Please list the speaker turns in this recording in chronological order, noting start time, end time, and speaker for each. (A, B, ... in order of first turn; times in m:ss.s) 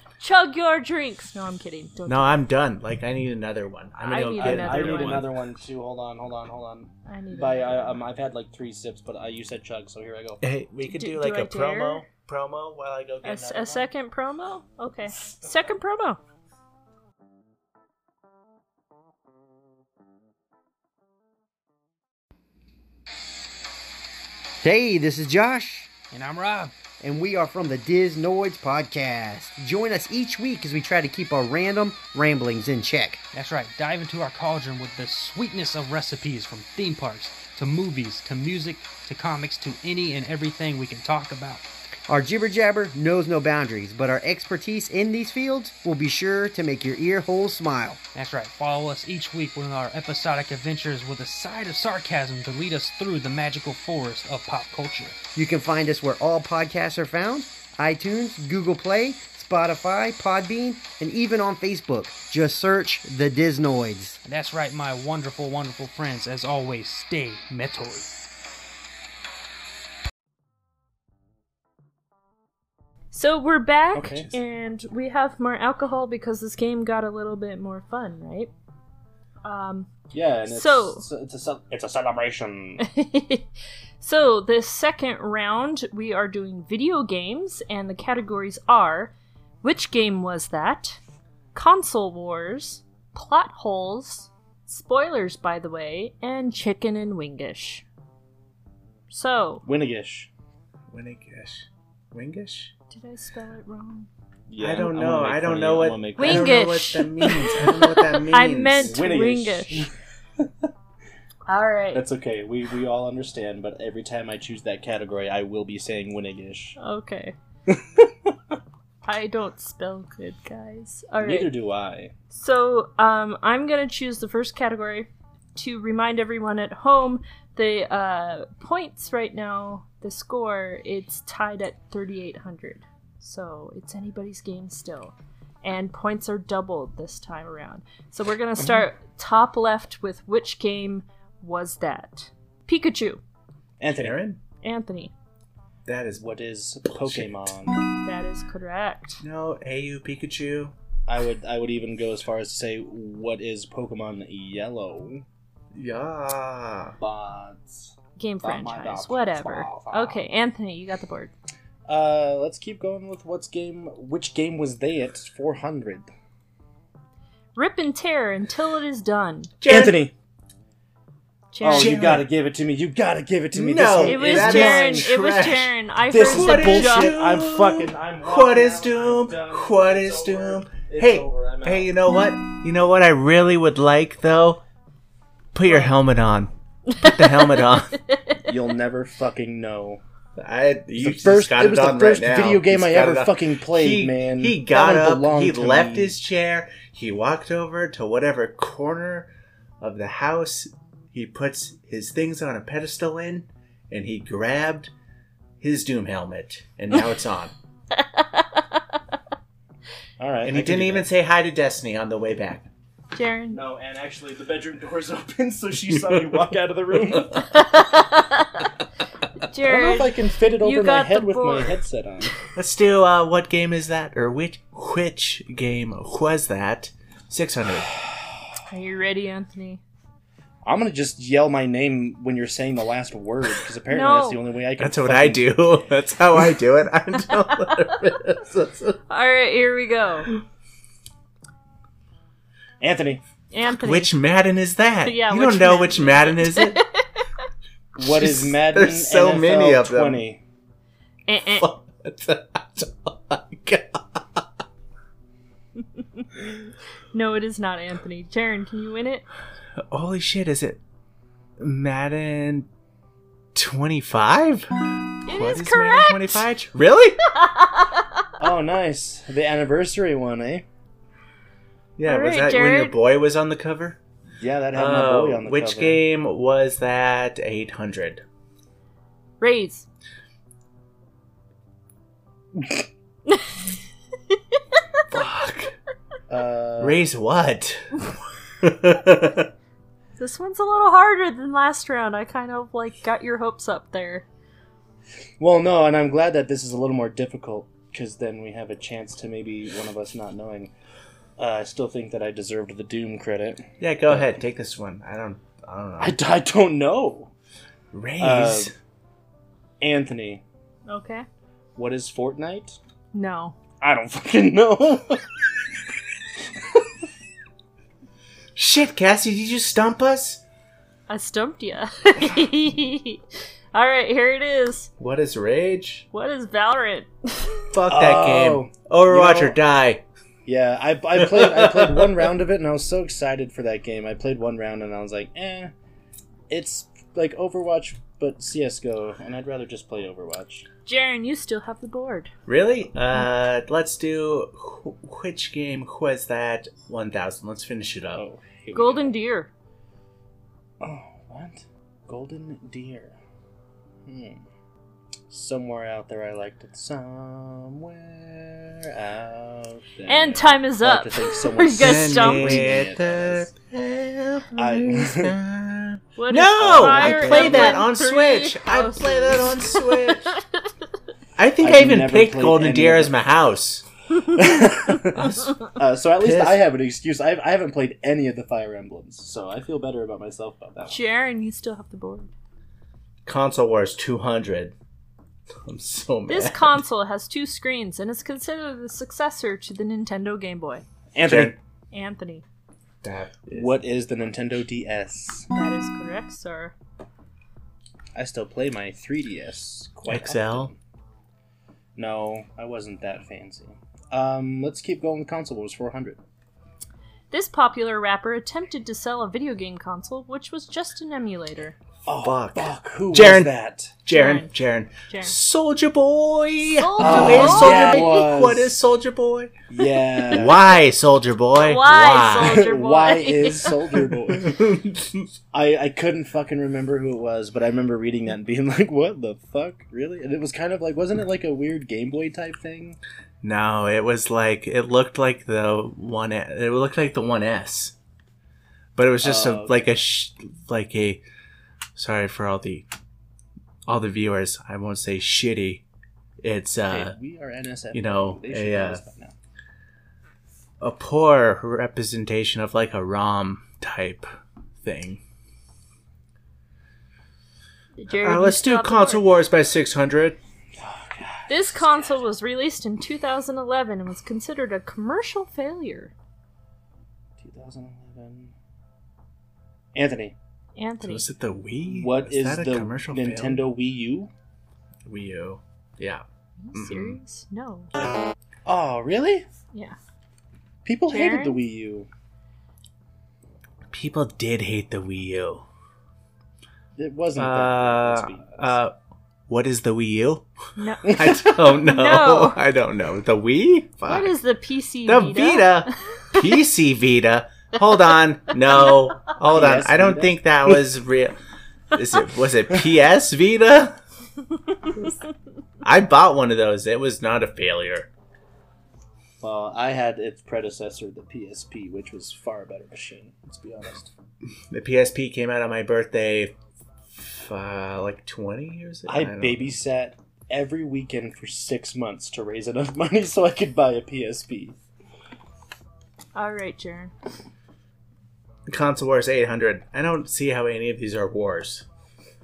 0:00.2-0:02.4 A
0:02.1-0:05.4 B
0:04.0-0:05.3 A
0:04.4-0:10.4 C
0:07.0-0:08.0 A
0:10.4-0:13.9 B
0:10.9-0:12.0 A
0:13.2-0:16.2 A
0:24.6-0:25.9 D
0:26.1-0:26.7 E
0:27.0-0:33.2 D
0:33.3-0:41.6 E
0:42.1-0:48.0 D
0:48.1-0:55.2 E
0:55.3-1:04.2 D
1:04.2-1:08.1 E
1:13.1-1:18.5 A
1:13.9-1:14.4 C
1:19.4-1:19.9 A
1:20.1-1:22.8 C
1:20.4-1:21.0 A
1:22.8-1:31.0 A
1:31.5-1:37.8 A
1:39.1-1:39.6 A
1:39.6-1:40.3 C
1:40.9-1:42.7 B
1:42.9-1:44.1 A
1:44.5-1:46.7 C
1:44.6-1:49.0 B
1:46.2-1:49.9 A
1:48.8-1:50.7 C
1:51.5-1:52.0 A
1:51.9-1:56.8 C
1:56.8-1:57.4 A
1:57.7-1:58.3 C
1:59.0-2:01.5 A
2:01.2-2:02.1 C
2:02.3-2:23.2 A
2:23.8-2:24.2 C
2:23.9-2:24.4 B
2:24.6-2:25.1 A
2:25.8-2:26.3 B
2:26.2-2:27.8 C
2:26.9-2:27.4 B
2:28.0-2:29.2 A
2:29.2-2:30.7 B
2:31.1-2:35.2 C
2:35.7-2:37.0 B
2:37.0-2:40.2 C
2:38.2-2:41.3 A
2:41.9-2:46.1 C
2:47.6-2:49.5 A
2:49.6-2:50.0 B
2:49.6-2:50.1 C
2:51.5-2:52.0 A
2:51.6-2:55.1 C
2:51.6-2:52.3 B
2:53.5-3:04.6 B
2:54.0-2:57.2 A
2:56.1-3:01.9 C
3:05.5-3:08.0 B
3:06.9-3:08.5 A
3:08.4-3:10.0 C
3:10.4-3:19.3 B
3:11.0-3:16.2 C
3:19.8-3:24.9 B
3:25.6-3:27.5 B
3:27.9-3:28.8 A
3:30.2-3:31.1 C
3:30.4-3:32.7 B
3:33.1-3:33.6 A
3:33.5-3:37.4 C
3:37.4-3:38.7 A
3:39.4-3:41.8 A
3:39.6-3:42.4 C
3:42.5-3:48.0 B
3:48.6-3:49.8 A
3:50.6-3:55.6 C
3:53.9-3:54.4 A
3:54.8-3:59.0 B
3:59.1-4:00.3 A
4:02.8-4:03.2 C
4:03.5-4:04.1 A
4:03.8-4:06.8 B
4:05.0-4:07.3 A
4:08.0-4:10.4 C
4:08.0-4:10.2 B
4:11.3-4:11.7 A
4:11.6-4:14.4 B
4:16.0-4:16.4 A
4:17.1-4:19.2 A
4:19.9-4:20.8 B
4:21.6-4:22.7 B
4:23.5-4:24.7 B
4:25.2-4:26.4 A
4:25.3-4:27.2 B
4:27.3-4:28.3 A
4:28.4-4:30.6 C
4:32.0-4:34.0 B
4:32.0-4:33.0 A
4:34.4-4:36.0 C
4:34.7-4:38.2 B
4:39.4-4:39.8 A
4:43.3-4:43.6 A
4:44.3-4:44.6 A
4:45.1-4:45.7 B
4:46.3-4:47.0 C
4:46.8-4:48.1 B
4:48.6-4:49.5 B
4:50.2-4:54.2 A
4:55.4-5:00.7 C
5:01.4-5:04.3 C
5:03.8-5:06.2 B
5:06.0-5:07.3 C
5:07.9-5:08.7 B
5:08.2-5:08.7 C
5:09.8-5:10.4 C
5:10.9-5:11.2 A
5:11.8-5:12.8 C
5:13.1-5:13.6 A
5:13.8-5:15.7 C
5:16.6-5:16.9 C
5:18.6-5:20.4 B
5:21.1-5:24.9 A
5:25.0-5:26.0 B
5:26.1-5:27.7 A
5:27.7-5:30.0 B
5:27.9-5:29.6 C
5:30.4-5:35.7 C
5:31.3-5:32.0 B
5:36.5-5:40.7 C
5:40.8-5:42.3 A
5:42.5-5:48.2 B
5:48.1-5:49.1 C
5:48.7-5:49.5 A
5:50.8-5:53.2 C
5:54.0-5:54.4 C
5:55.3-6:03.5 C
6:00.1-6:02.7 A
6:01.7-6:10.3 B
6:04.5-6:05.3 C
6:06.2-6:10.6 A
6:06.4-6:07.9 C
6:11.4-6:13.8 B
6:11.6-6:13.2 C
6:14.2-6:21.0 C
6:15.1-6:16.6 B
6:20.8-6:22.3 A
6:23.2-6:24.7 B
6:25.6-6:26.8 B
6:26.3-6:30.8 A
6:31.1-6:31.6 C
6:31.2-6:31.6 B
6:31.9-6:32.4 A
6:33.0-6:33.7 B
6:33.5-6:35.5 C
6:35.5-6:36.7 A
6:38.1-6:40.8 C
6:40.1-6:40.7 B
6:42.0-6:46.2 C
6:47.3-6:51.8 A
6:52.0-6:54.0 C
6:52.2-6:53.5 B
6:54.0-6:59.5 B
6:54.1-6:54.5 A
6:55.1-6:55.3 A
6:56.7-6:58.2 A
6:57.0-6:58.8 C
6:59.7-7:00.6 C
7:00.3-7:02.6 B
7:01.6-7:03.7 A
7:02.4-7:04.6 C
7:04.3-7:05.3 B
7:05.5-7:13.0 C
7:13.4-7:17.9 B
7:19.0-7:21.2 B
7:19.2-7:19.8 C
7:22.0-7:22.9 B
7:23.9-7:25.8 B
7:26.4-7:27.2 B
7:26.9-7:29.3 C
7:27.9-7:29.0 B
7:30.8-7:34.3 B
7:34.8-7:35.2 B
7:38.0-7:39.2 A
7:38.1-7:40.4 B
7:40.8-7:42.2 C
7:41.5-7:46.1 A
7:47.4-7:48.5 C
7:49.9-7:50.3 C
7:50.8-7:51.2 A
7:51.0-7:53.6 B
7:51.9-7:54.3 C
7:55.0-7:57.2 B
7:56.6-7:57.9 A
7:58.6-7:59.4 C
8:00.8-8:02.1 C
8:01.1-8:01.6 A
8:03.9-8:05.6 B
8:07.0-8:08.8 C
8:07.4-8:08.9 B
8:09.5-8:10.4 B
8:10.8-8:12.6 A
8:11.0-8:11.6 C
8:11.0-8:14.3 B
8:14.0-8:16.4 A
8:15.0-8:21.4 B
8:19.4-8:20.8 C
8:21.9-8:24.0 B
8:25.8-8:28.1 B
8:29.4-8:34.1 C
8:34.7-8:36.5 B
8:37.1-8:39.7 B
8:39.1-8:44.8 C
8:46.3-8:47.1 A
8:48.7-8:51.8 B